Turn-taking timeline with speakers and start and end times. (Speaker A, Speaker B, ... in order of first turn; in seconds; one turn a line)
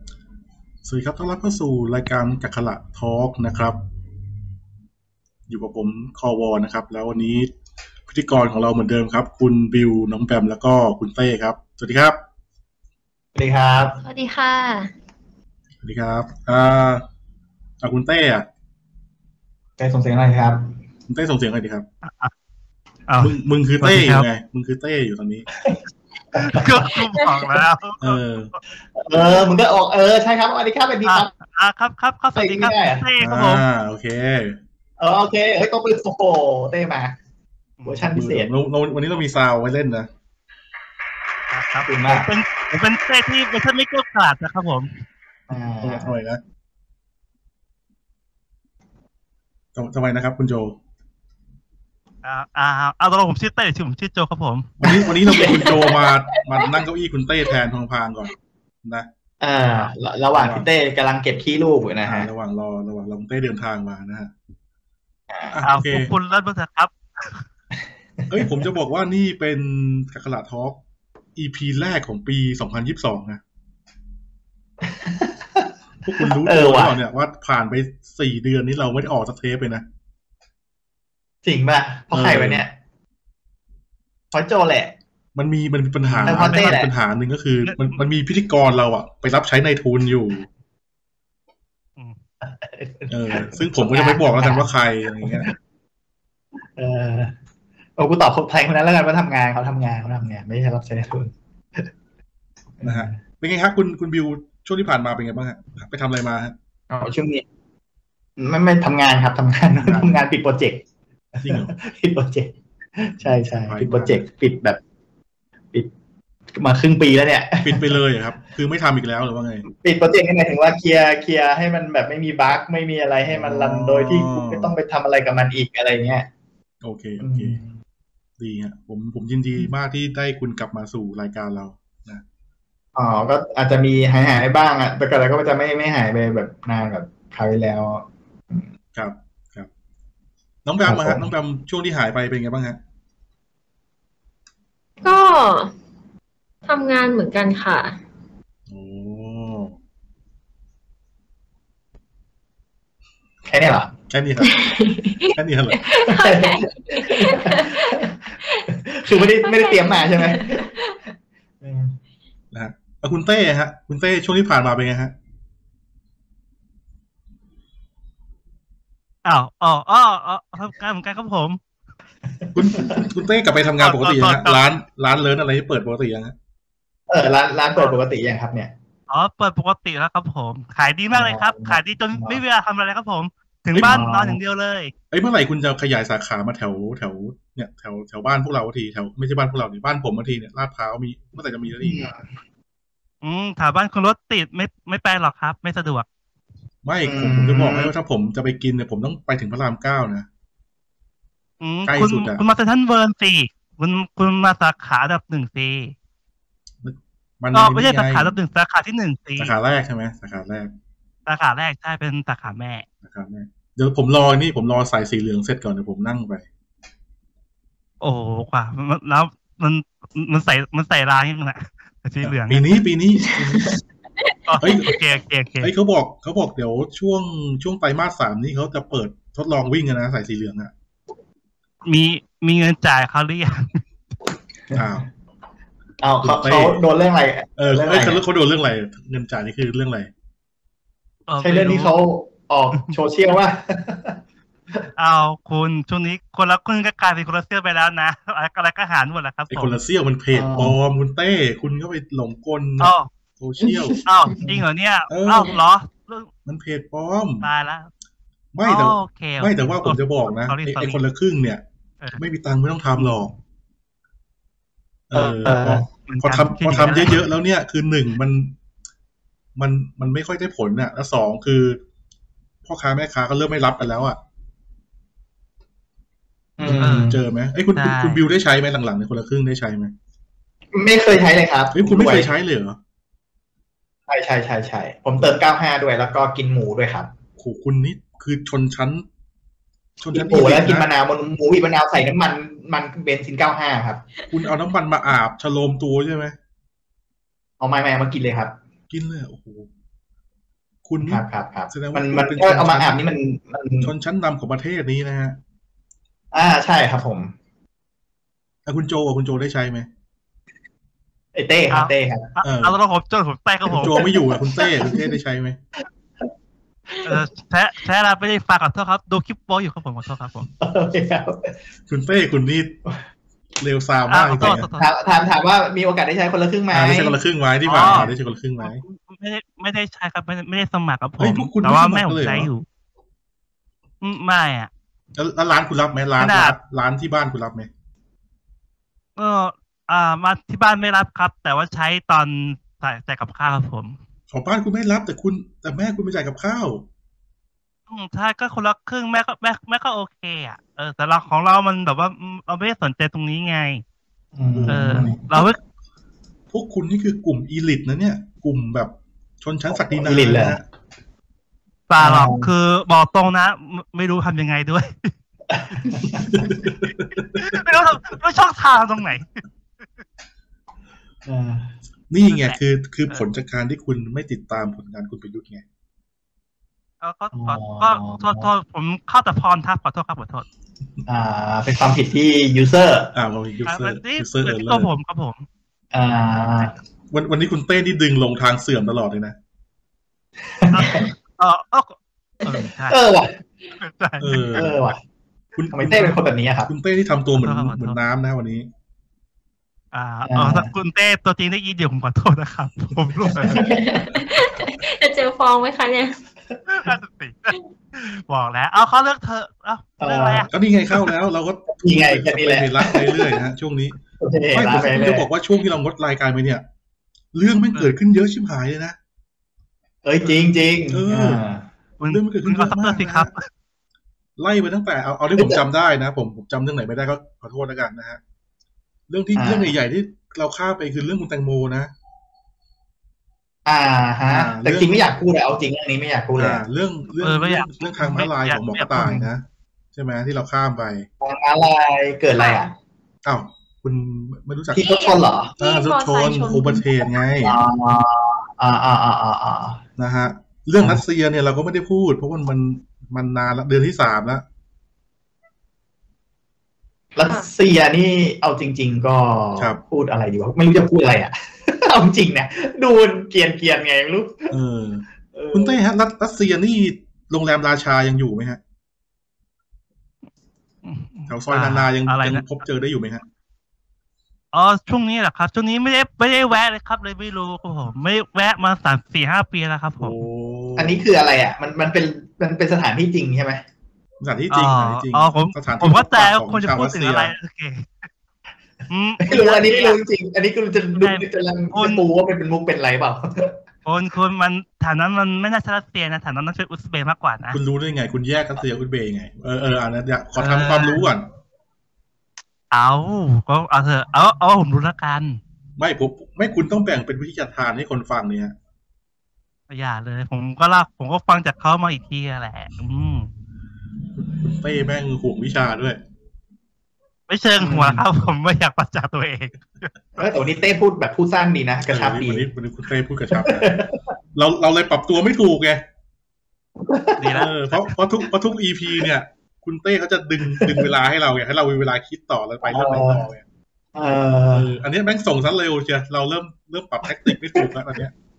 Speaker A: 0.8-3.8
Speaker A: 5.5-7.5
Speaker A: 8.1-12.2
Speaker B: 13.4-14.0
Speaker C: 14.0-14.9
Speaker A: 15.8-17.1
Speaker A: 17.8-18.5
Speaker B: 19.8-20.7
Speaker A: 21.1-21.9
Speaker D: 22.0-22.3
Speaker D: 23.1-24.3
Speaker A: 23.2-25.5
Speaker B: 26.4-26.9
Speaker D: 26.4-28.6
Speaker A: 28.0-28.5
Speaker B: 29.0-31.3
Speaker D: 31.1-33.6
Speaker B: 32.4-33.1
Speaker A: 33.2-34.6
Speaker B: 35.0-37.2
Speaker D: 37.8-38.2
Speaker B: 37.9-38.5
Speaker A: 38.1-40.1
Speaker D: 41.5-44.9
Speaker B: 41.9-42.3
Speaker B: 45.5-46.1
Speaker A: 45.8-46.4
Speaker A: 49.8-50.8
Speaker D: 52.2-54.7
Speaker A: 54.8-58.3
Speaker B: 54.8-55.8
Speaker C: 55.4-56.0
Speaker B: 59.4-62.3
Speaker A: 60.3-60.7
Speaker A: 62.0-64.3
Speaker B: 65.3-65.6
Speaker A: 65.5-66.1
Speaker D: 65.6-67.4
Speaker B: 68.2-68.6
Speaker A: 68.3-70.8
Speaker A: 71.4-73.4
Speaker B: 74.9-75.7
Speaker A: 76.0-79.8
Speaker B: 76.3-77.0
Speaker B: 81.4-82.7
Speaker A: 82.1-82.7
Speaker B: 84.3-84.9
Speaker A: 85.3-90.5
Speaker D: 86.1-86.8
Speaker B: 86.2-86.9
Speaker D: 87.6-88.0
Speaker B: 92.4-95.5
Speaker A: 93.1-95.5
Speaker B: 96.8-97.3
Speaker B: 98.0-101.9
Speaker B: 102.8-103.2
Speaker A: 102.8-106.5
Speaker B: 106.9-107.4
Speaker B: 108.4-110.8
Speaker A: 109.8-110.2
Speaker B: 111.4-114.8
Speaker A: 111.4-111.8
Speaker A: 113.2-114.2
Speaker B: 116.5-118.0
Speaker A: 117.6-119.7
Speaker B: 119.7-126.3
Speaker A: 123.3-124.8
Speaker A: 126.8-127.6
Speaker B: 127.2-127.7
Speaker A: 128.4-132.2
Speaker B: 133.0-138.7
Speaker A: 138.9-139.7
Speaker A: 140.7-142.8
Speaker B: 140.8-141.3
Speaker C: 145.0-145.7
Speaker C: 146.7-148.0
Speaker A: 148.7-149.8
Speaker B: 153.4-153.9
Speaker A: 154.1-154.7
Speaker C: 154.4-158.6
Speaker A: 155.3-155.8
Speaker B: 156.1-158.2
Speaker B: 158.7-160.7
Speaker C: 159.2-161.0
Speaker B: 161.6-162.0
Speaker A: 162.5-165.1
Speaker D: 169.2-171.6
Speaker A: 172.6-176.3
Speaker B: 172.6-173.1
Speaker D: 173.8-174.6
Speaker B: 177.1-178.7
Speaker D: 179.1-184.9
Speaker B: 181.1-182.4
Speaker A: 183.8-184.1
Speaker B: 183.8-184.4
Speaker A: 185.1-192.0
Speaker B: 191.8-192.2
Speaker D: 193.2-196.1
Speaker A: 196.8-200.3
Speaker B: 197.1-197.9
Speaker D: 201.6-205.9
Speaker A: 201.9-202.4
Speaker A: 206.8-208.3
Speaker D: 207.5-209.5
Speaker A: 209.4-210.7
Speaker D: 211.3-212.9
Speaker A: 213.0-216.4
Speaker D: 218.0-222.8
Speaker A: 222.2-223.7
Speaker C: 224.2-225.0
Speaker D: 224.5-225.7
Speaker A: 224.6-224.9
Speaker A: 225.6-230.7
Speaker D: 231.8-233.8
Speaker A: 234.7-235.1
Speaker B: 236.0-238.2
Speaker A: 236.2-236.8
Speaker A: 237.6-240.1
Speaker D: 241.3-242.0
Speaker B: 241.4-244.2
Speaker D: 245.0-249.8
Speaker A: 249.5-254.0
Speaker B: 250.3-250.8
Speaker D: 252.8-253.1
Speaker D: 254.1-256.3
Speaker A: 255.1-255.6
Speaker A: 256.5-257.5
Speaker D: 257.4-257.9
Speaker A: 258.5-261.6
Speaker D: 258.7-261.0
Speaker A: 262.2-263.3
Speaker D: 263.0-263.2
Speaker A: 265.1-268.6
Speaker B: 265.1-265.9
Speaker D: 266.1-267.2
Speaker A: 269.6-271.8
Speaker A: 272.6-274.2
Speaker B: 276.6-277.2
Speaker A: 276.6-279.9
Speaker D: 276.8-277.2
Speaker D: 277.8-278.2
Speaker B: 280.7-282.3
Speaker A: 281.7-282.8
Speaker B: 284.1-287.1
Speaker A: 287.4-289.1
Speaker A: 290.0-290.9
Speaker B: 290.1-294.1
Speaker A: 294.3-296.4
Speaker B: 297.6-298.6
Speaker A: 298.9-299.7
Speaker A: 300.9-303.0
Speaker B: 301.0-303.9
Speaker A: 303.8-305.4
Speaker B: 306.3-307.3
Speaker A: 308.7-309.9
Speaker B: 311.4-312.3
Speaker D: 311.7-314.1
Speaker A: 312.4-312.8
Speaker B: 313.7-315.1
Speaker A: 313.8-315.6
Speaker D: 317.0-320.5
Speaker B: 320.6-321.5
Speaker A: 321.9-322.8
Speaker A: 323.6-324.7
Speaker D: 324.1-325.0
Speaker B: 324.4-327.2
Speaker A: 326.7-328.8
Speaker D: 327.6-332.7
Speaker B: 327.8-328.1
Speaker A: 331.2-332.5
Speaker D: 334.0-334.7
Speaker A: 335.1-337.7
Speaker D: 336.2-336.6
Speaker D: 339.2-344.0
Speaker A: 344.3-346.9
Speaker D: 347.9-353.8
Speaker B: 354.4-355.2
Speaker A: 354.6-355.5
Speaker D: 354.7-355.6
Speaker A: 356.5-360.6
Speaker B: 359.7-360.6
Speaker D: 361.9-365.1
Speaker B: 362.0-362.5
Speaker B: 365.5-366.6
Speaker A: 366.3-367.8
Speaker D: 367.4-369.4
Speaker B: 371.2-371.7
Speaker A: 372.1-375.6
Speaker D: 372.3-372.6
Speaker D: 377.0-380.5
Speaker B: 377.4-378.5
Speaker B: 381.1-383.1
Speaker A: 383.1-384.9
Speaker D: 383.7-385.5
Speaker B: 385.9-386.7
Speaker A: 387.1-389.4
Speaker B: 390.5-391.1
Speaker D: 390.7-393.0
Speaker B: 392.5-393.4
Speaker D: 393.8-394.7
Speaker A: 394.2-394.7
Speaker B: 394.5-395.0
Speaker A: 395.6-398.7
Speaker B: 395.7-396.7
Speaker D: 397.4-398.0
Speaker D: 399.9-403.7
Speaker B: 400.3-400.7
Speaker B: 403.3-403.8
Speaker C: 403.6-406.2
Speaker D: 406.7-410.5
Speaker B: 410.0-410.5
Speaker A: 410.5-414.0
Speaker B: 411.7-413.4
Speaker B: 414.2-415.3
Speaker A: 414.5-416.6
Speaker A: 417.3-419.0
Speaker B: 420.1-421.7
Speaker A: 420.9-421.4
Speaker D: 422.0-423.5
Speaker A: 422.1-423.3
Speaker A: 424.4-428.2
Speaker A: 429.1-431.9
Speaker B: 429.4-429.7
Speaker B: 433.7-436.6
Speaker A: 434.3-435.1
Speaker A: 436.4-441.1
Speaker D: 437.2-439.2
Speaker B: 439.0-439.3
Speaker B: 441.2-442.7
Speaker C: 442.4-442.7
Speaker A: 443.2-445.1
Speaker B: 444.7-445.5
Speaker C: 444.8-447.1
Speaker A: 445.6-447.6
Speaker B: 447.4-449.8
Speaker A: 450.0-454.4
Speaker B: 457.2-464.5
Speaker C: 457.2-457.5
Speaker A: 464.5-468.6
Speaker B: 465.3-465.8
Speaker D: 470.8-472.6
Speaker A: 471.3-473.2
Speaker D: 474.5-480.2
Speaker A: 480.0-481.1
Speaker B: 480.8-483.6
Speaker A: 484.2-487.3
Speaker D: 484.5-488.1
Speaker D: 488.9-490.0
Speaker B: 489.2-493.6
Speaker D: 491.0-492.0
Speaker D: 493.9-497.6
Speaker A: 497.5-501.3
Speaker D: 500.4-501.1
Speaker D: 502.7-505.4
Speaker A: 505.8-508.6
Speaker D: 509.7-513.3
Speaker A: 514.1-516.0
Speaker D: 517.3-520.3
Speaker B: 517.6-518.0
Speaker B: 520.2-522.5
Speaker A: 521.9-523.7
Speaker B: 523.3-524.1
Speaker A: 524.4-525.9
Speaker B: 526.9-527.5
Speaker D: 527.2-527.9
Speaker A: 527.3-533.4
Speaker B: 530.6-530.9
Speaker B: 532.6-533.2
Speaker B: 534.0-534.7
Speaker A: 534.5-538.1